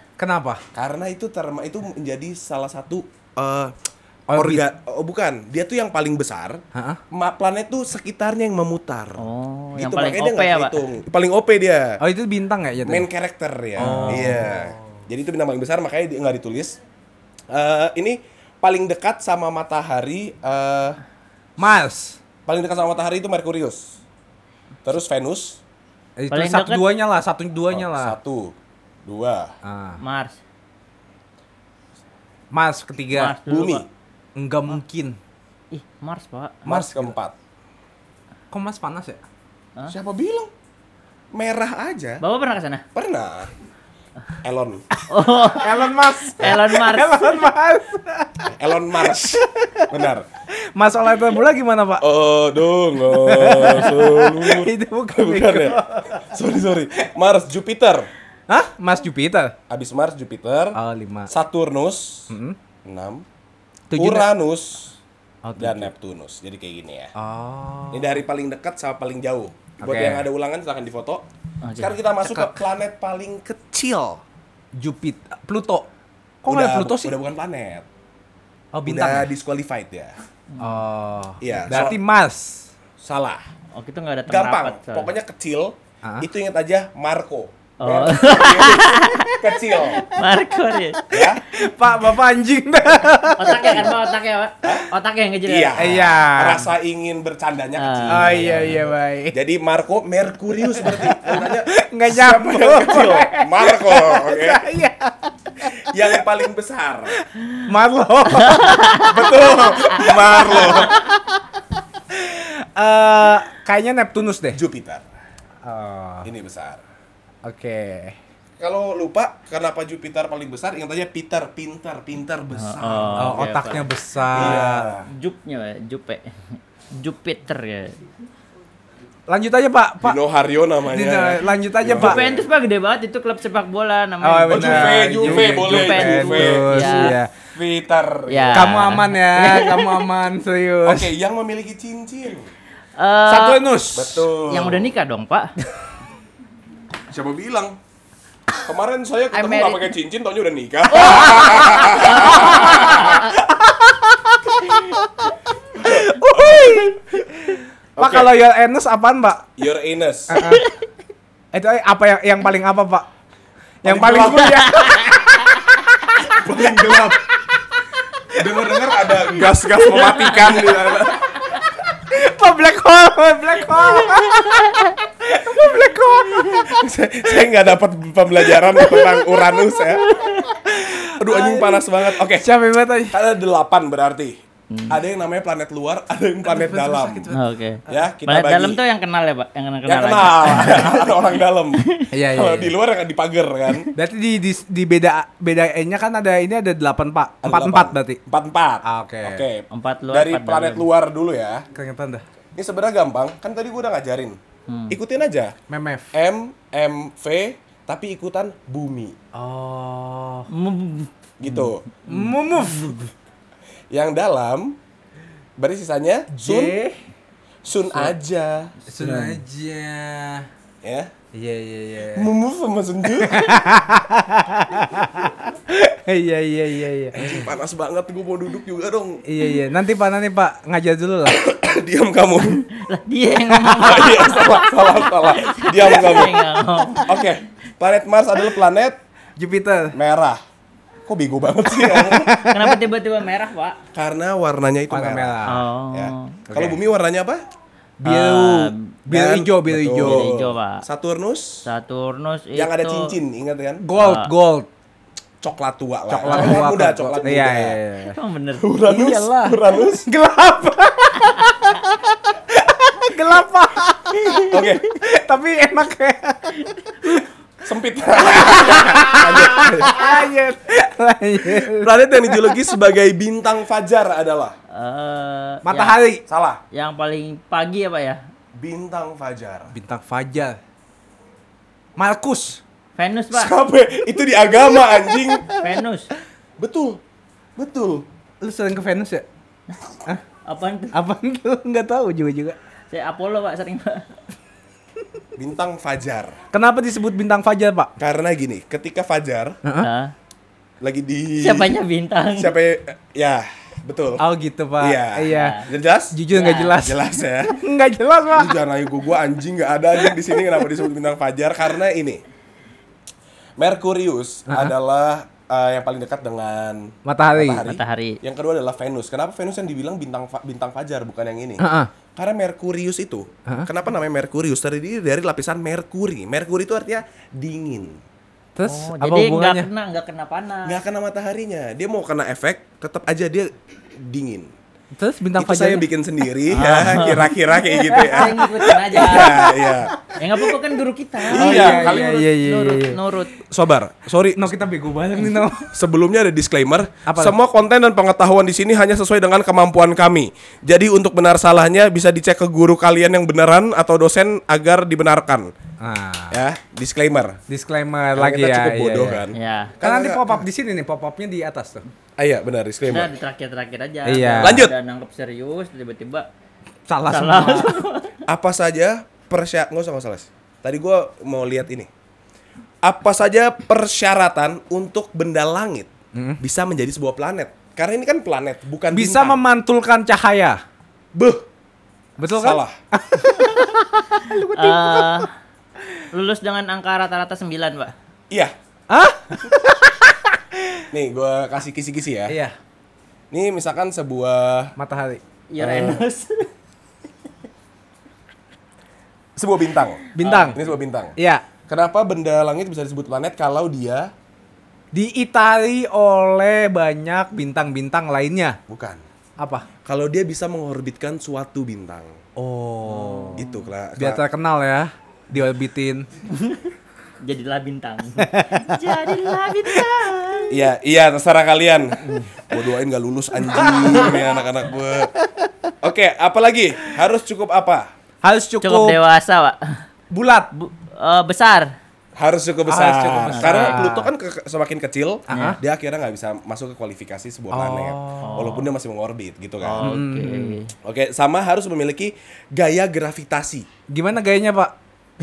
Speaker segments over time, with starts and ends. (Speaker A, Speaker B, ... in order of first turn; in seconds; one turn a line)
Speaker A: 0.2-0.6
Speaker B: 0.7-3.7
Speaker A: 4.3-4.6
Speaker B: 4.3-9.2
Speaker A: 6.7-7.0
Speaker C: 9.2-10.8
Speaker B: 9.8-12.0
Speaker A: 12.0-13.1
Speaker B: 12.8-16.8
Speaker A: 13.8-14.8
Speaker C: 13.8-14.2
Speaker B: 17.5-21.0
Speaker A: 21.6-22.2
Speaker B: 22.4-23.9
Speaker B: 24.8-25.6
Speaker A: 26.2-28.1
Speaker C: 26.3-26.9
Speaker B: 27.7-29.5
Speaker A: 29.6-30.0
Speaker C: 30.0-30.4
Speaker A: 32.5-33.4
Speaker C: 33.1-33.9
Speaker B: 33.5-33.9
Speaker A: 34.4-35.2
Speaker C: 35.7-36.6
Speaker B: 36.6-37.3
Speaker A: 36.7-37.1
Speaker A: 38.5-39.2
Speaker B: 39.9-40.5
Speaker B: 41.3-42.2
Speaker C: 42.2-42.8
Speaker B: 42.9-43.5
Speaker B: 44.4-44.8
Speaker A: 45.0-48.5
Speaker C: 45.1-47.4
Speaker B: 48.5-50.3
Speaker A: 49.0-49.9
Speaker A: 50.7-52.1
Speaker B: 52.0-58.1
Speaker A: 53.0-56.3
Speaker A: 58.5-59.5
Speaker B: 59.7-60.8
Speaker A: 60.7-61.3
Speaker B: 61.3-62.3
Speaker A: 62.3-62.6
Speaker B: 62.8-63.2
Speaker A: 63.9-64.3
Speaker B: 64.0-64.9
Speaker A: 65.4-65.9
Speaker B: 65.6-67.1
Speaker A: 67.2-68.2
Speaker B: 67.9-71.2
Speaker A: 69.8-70.2
Speaker C: 71.6-72.0
Speaker B: 71.8-74.2
Speaker A: 72.2-72.6
Speaker A: 74.8-75.9
Speaker A: 76.4-77.1
Speaker B: 76.5-77.8
Speaker A: 78.7-79.3
Speaker B: 78.8-80.1
Speaker C: 80.5-80.8
Speaker A: 80.6-82.7
Speaker B: 81.4-82.0
Speaker B: 83.0-83.4
Speaker C: 83.7-85.1
Speaker B: 84.3-90.0
Speaker A: 86.0-86.3
Speaker C: 87.8-89.3
Speaker C: 90.0-91.0
Speaker A: 91.0-93.9
Speaker B: 91.1-91.4
Speaker C: 93.4-96.0
Speaker B: 94.6-94.9
Speaker B: 95.5-104.6
Speaker A: 95.8-96.7
Speaker C: 97.8-98.7
Speaker A: 98.1-99.3
Speaker A: 100.6-106.1
Speaker B: 105.8-107.1
Speaker A: 107.6-111.1
Speaker C: 108.3-109.2
Speaker B: 109.0-111.0
Speaker A: 112.1-114.6
Speaker B: 114.5-115.0
Speaker A: 115.6-116.3
Speaker B: 116.2-116.8
Speaker A: 117.4-118.2
Speaker B: 118.6-123.5
Speaker C: 122.5-126.4
Speaker A: 123.2-124.9
Speaker B: 124.3-125.1
Speaker C: 126.9-128.0
Speaker A: 129.3-130.2
Speaker B: 130.0-132.4
Speaker A: 130.9-132.2
Speaker C: 131.9-137.2
Speaker A: 134.2-137.3
Speaker B: 134.5-138.7
Speaker C: 138.3-140.1
Speaker A: 138.5-141.1
Speaker B: 140.8-142.5
Speaker C: 143.0-143.7
Speaker A: 143.3-144.3
Speaker B: 143.9-144.9
Speaker C: 144.5-145.5
Speaker B: 147.1-147.8
Speaker B: 148.6-153.2
Speaker C: 149.3-149.9
Speaker C: 150.9-153.4
Speaker A: 151.3-155.0
Speaker C: 154.6-155.0
Speaker B: 155.8-156.9
Speaker A: 155.8-159.5
Speaker B: 158.0-158.3
Speaker B: 159.6-160.4
Speaker A: 160.3-160.7
Speaker C: 160.4-160.6
Speaker A: 161.5-163.1
Speaker B: 163.8-164.7
Speaker A: 163.8-166.3
Speaker C: 164.7-165.5
Speaker B: 166.3-167.2
Speaker B: 168.3-171.3
Speaker C: 169.8-170.6
Speaker A: 171.9-176.7
Speaker C: 173.8-174.9
Speaker B: 176.7-180.1
Speaker C: 179.9-180.5
Speaker A: 180.6-183.2
Speaker B: 181.2-182.5
Speaker B: 183.0-184.4
Speaker C: 184.7-185.0
Speaker B: 184.9-187.3
Speaker A: 186.4-188.0
Speaker C: 187.3-191.2
Speaker B: 187.9-188.8
Speaker B: 189.8-193.9
Speaker C: 191.8-192.1
Speaker A: 192.1-192.7
Speaker A: 193.9-198.2
Speaker B: 197.4-201.6
Speaker A: 198.8-199.4
Speaker C: 199.7-200.9
Speaker A: 201.7-202.2
Speaker B: 202.6-204.4
Speaker C: 204.7-205.0
Speaker B: 204.9-205.6
Speaker A: 205.7-206.1
Speaker B: 206.1-209.2
Speaker A: 209.3-210.5
Speaker C: 210.5-213.0
Speaker B: 211.4-211.8
Speaker A: 212.1-213.1
Speaker B: 213.9-214.8
Speaker B: 215.6-216.8
Speaker A: 216.3-216.9
Speaker B: 217.6-219.3
Speaker A: 218.9-220.5
Speaker B: 220.8-221.1
Speaker A: 221.3-222.3
Speaker B: 222.1-223.6
Speaker A: 223.2-227.5
Speaker B: 227.1-229.2
Speaker A: 229.2-231.4
Speaker B: 231.3-232.6
Speaker C: 232.7-237.1
Speaker B: 233.7-236.4
Speaker B: 237.1-239.0
Speaker A: 239.4-239.9
Speaker B: 239.9-240.4
Speaker B: 241.1-242.3
Speaker A: 241.7-242.8
Speaker C: 242.3-243.8
Speaker B: 243.9-247.4
Speaker A: 244.9-245.6
Speaker C: 245.4-246.4
Speaker A: 246.5-246.8
Speaker A: 248.0-250.3
Speaker C: 248.0-248.9
Speaker B: 249.1-251.6
Speaker C: 250.0-250.8
Speaker C: 251.6-253.1
Speaker B: 252.6-253.8
Speaker A: 253.8-254.7
Speaker C: 253.9-254.3
Speaker B: 255.4-257.8
Speaker A: 256.1-258.2
Speaker C: 256.2-256.6
Speaker C: 258.1-258.6
Speaker B: 258.6-260.1
Speaker A: 258.9-267.2
Speaker C: 264.1-264.6
Speaker B: 264.5-264.9
Speaker C: 266.6-267.2
Speaker B: 267.6-270.1
Speaker A: 268.3-272.7
Speaker B: 271.6-274.6
Speaker C: 274.7-276.0
Speaker A: 275.6-276.2
Speaker B: 276.3-276.6
Speaker C: 276.7-278.2
Speaker B: 278.5-279.7
Speaker A: 279.7-280.6
Speaker A: 282.0-282.6
Speaker C: 282.9-283.5
Speaker B: 283.3-285.5
Speaker C: 285.6-286.1
Speaker B: 286.6-287.0
Speaker B: 287.6-288.1
Speaker A: 288.4-289.2
Speaker C: 290.4-290.9
Speaker A: 290.9-292.6
Speaker C: 292.9-294.1
Speaker B: 295.4-296.4
Speaker A: 296.5-297.9
Speaker B: 298.0-299.6
Speaker A: 299.6-299.9
Speaker C: 299.8-300.1
Speaker B: 300.8-301.8
Speaker C: 301.4-302.5
Speaker B: 302.3-304.2
Speaker A: 304.2-308.6
Speaker B: 304.8-306.2
Speaker C: 305.3-305.7
Speaker C: 306.3-306.8
Speaker B: 306.7-307.6
Speaker B: 308.3-312.2
Speaker B: 313.6-321.6
Speaker A: 314.5-314.7
Speaker A: 317.1-317.6
Speaker C: 317.6-318.2
Speaker A: 321.6-321.9
Speaker B: 322.1-328.0
Speaker A: 328.6-329.7
Speaker C: 328.6-330.8
Speaker B: 330.6-334.5
Speaker A: 335.0-335.9
Speaker B: 335.4-339.9
Speaker C: 336.5-337.4
Speaker A: 337.7-338.3
Speaker C: 337.9-339.5
Speaker A: 339.3-339.6
Speaker C: 340.1-343.4
Speaker A: 341.3-343.0
Speaker B: 341.3-342.1
Speaker B: 343.5-344.5
Speaker A: 344.3-345.7
Speaker B: 345.7-355.5
Speaker A: 347.1-347.3
Speaker A: 355.8-356.4
Speaker B: 356.3-357.4
Speaker A: 357.5-359.2
Speaker B: 358.1-360.4
Speaker C: 359.3-359.8
Speaker A: 359.8-361.8
Speaker B: 362.2-363.1
Speaker C: 362.9-366.3
Speaker A: 364.1-364.6
Speaker B: 364.4-364.7
Speaker A: 366.9-367.8
Speaker C: 367.1-368.1
Speaker B: 368.3-371.9
Speaker B: 372.8-379.4
Speaker A: 376.1-376.4
Speaker A: 378.9-380.6
Speaker B: 381.1-381.4
Speaker A: 382.2-385.2
Speaker B: 382.2-382.8
Speaker C: 384.5-385.3
Speaker C: 386.1-387.9
Speaker A: 388.9-390.8
Speaker B: 390.9-392.4
Speaker A: 392.3-392.5
Speaker B: 393.3-394.7
Speaker A: 394.8-396.0
Speaker C: 395.5-396.5
Speaker B: 399.4-401.1
Speaker A: 400.2-400.6
Speaker C: 400.2-400.7
Speaker A: 401.2-401.4
Speaker B: 401.7-404.1
Speaker A: 404.9-408.6
Speaker B: 408.7-409.0
Speaker A: 409.4-409.6
Speaker B: 409.8-412.2
Speaker A: 412.4-413.4
Speaker C: 412.9-413.6
Speaker B: 413.4-414.2
Speaker A: 414.0-416.1
Speaker C: 416.3-416.7
Speaker C: 417.2-420.6
Speaker A: 418.2-418.8
Speaker B: 420.5-425.1
Speaker C: 422.0-422.3
Speaker A: 423.5-424.4
Speaker A: 425.2-425.5
Speaker B: 425.8-427.9
Speaker A: 428.2-429.0
Speaker C: 428.6-429.8
Speaker A: 430.1-430.5
Speaker C: 430.5-431.7
Speaker B: 432.2-439.9
Speaker A: 432.7-434.1
Speaker C: 433.3-433.9
Speaker C: 435.3-435.6
Speaker A: 435.3-435.6
Speaker A: 437.5-438.5
Speaker C: 438.2-438.6
Speaker C: 439.6-440.7
Speaker A: 439.8-440.6
Speaker B: 440.8-443.7
Speaker A: 443.9-444.7